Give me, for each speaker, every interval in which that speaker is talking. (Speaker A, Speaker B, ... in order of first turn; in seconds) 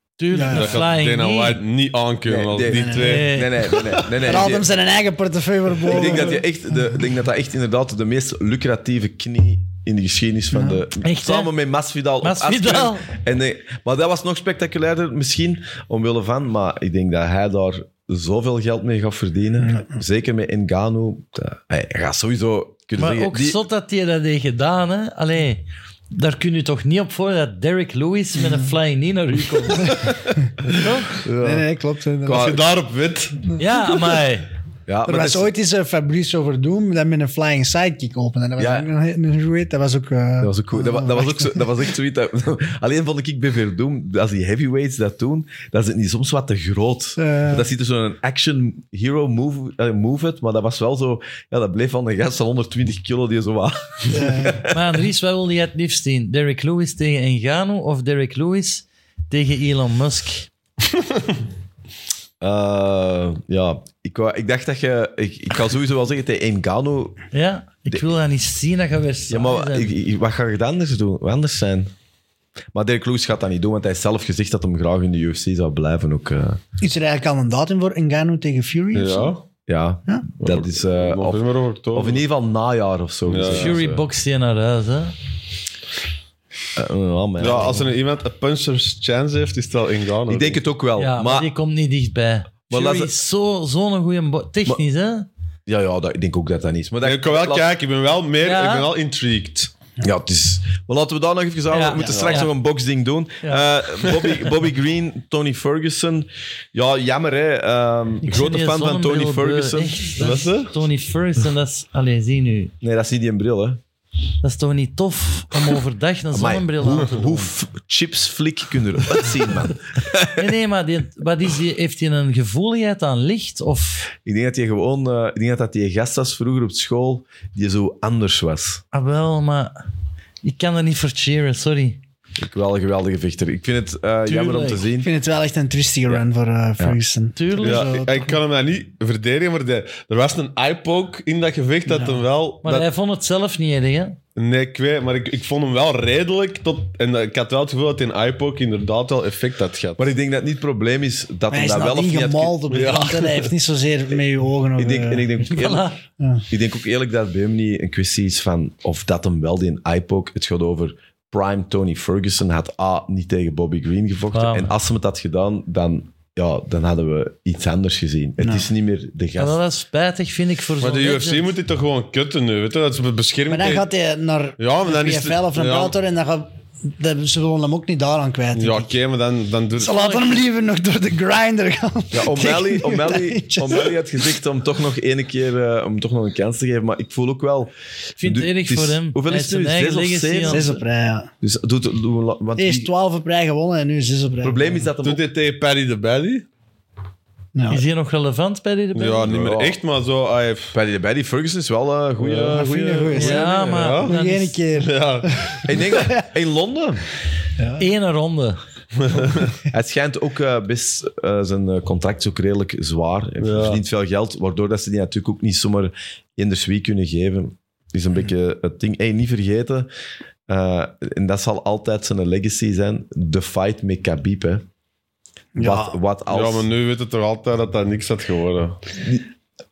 Speaker A: 0.2-1.6, 3.0-3.5, 11.0-11.5, 12.2-13.1, 23.0-30.0, 30.7-31.2, 33.6-34.5, 54.7-60.5, 67.3-69.9, 83.5-85.1, 91.0-95.3, 98.4-98.9, 101.7-102.5, 108.3-112.7, 114.4-117.5, 120.4-124.1, 128.9-129.8, 130.4-132.0, 134.3-134.9, 137.4-137.9, 142.6-144.2, 155.4-156.0, 164.3-164.7, 169.4-171.5, 179.9-180.2, 188.2-190.8, 197.7-199.3, 203.1-204.6, 207.8-208.6
Speaker B: 0.3-0.8, 2.6-3.1, 4.2-6.5, 10.5-10.8, 19.6-20.0, 28.4-28.7, 29.8-30.1, 31.4-32.6, 35.1-41.6, 47.2-47.7, 54.1-54.6, 76.8-79.3, 135.0-138.4, 141.9-142.2, 151.5-155.3, 156.2-156.4, 168.4-168.7, 173.5-178.9, 179.8-183.9, 190.5-191.3, 192.6-194.8, 197.6-197.8, 202.5-206.2, 207.6-207.9, 225.6-226.0
Speaker C: 0.5-4.3, 30.7-31.6, 32.3-33.5, 78.9-79.4, 80.4-82.2, 83.3-83.8, 87.4-90.6, 97.0-99.7, 110.2-110.7, 137.6-142.9, 144.4-150.1, 152.7-153.6, 170.8-173.9, 174.6-176.0, 178.6-180.1, 195.0-196.5, 198.9-200.7, 202.2-204.2, 204.7-205.7, 209.0-209.5, 213.4-213.8, 226.3-228.8
Speaker D: 2.3-4.7, 5.9-23.6, 32.3-32.6, 34.9-35.5, 38.6-38.9, 40.4-54.8, 62.4-67.2, 69.3-71.9, 72.7-76.6, 79.7-84.0, 86.8-87.9, 90.3-91.5, 92.7-93.2, 95.7-97.7, 100.0-110.0, 112.8-113.8, 116.3-120.5, 124.2-128.8, 132.4-135.1, 150.0-152.5, 154.8-155.9, 156.5-169.6, 182.1-187.7, 188.2-190.7, 191.4-192.9, 194.4-195.2, 199.3-199.8, 200.7-203.9, 205.7-207.0, 209.7-219.9, 220.5-224.7, 225.6-226.7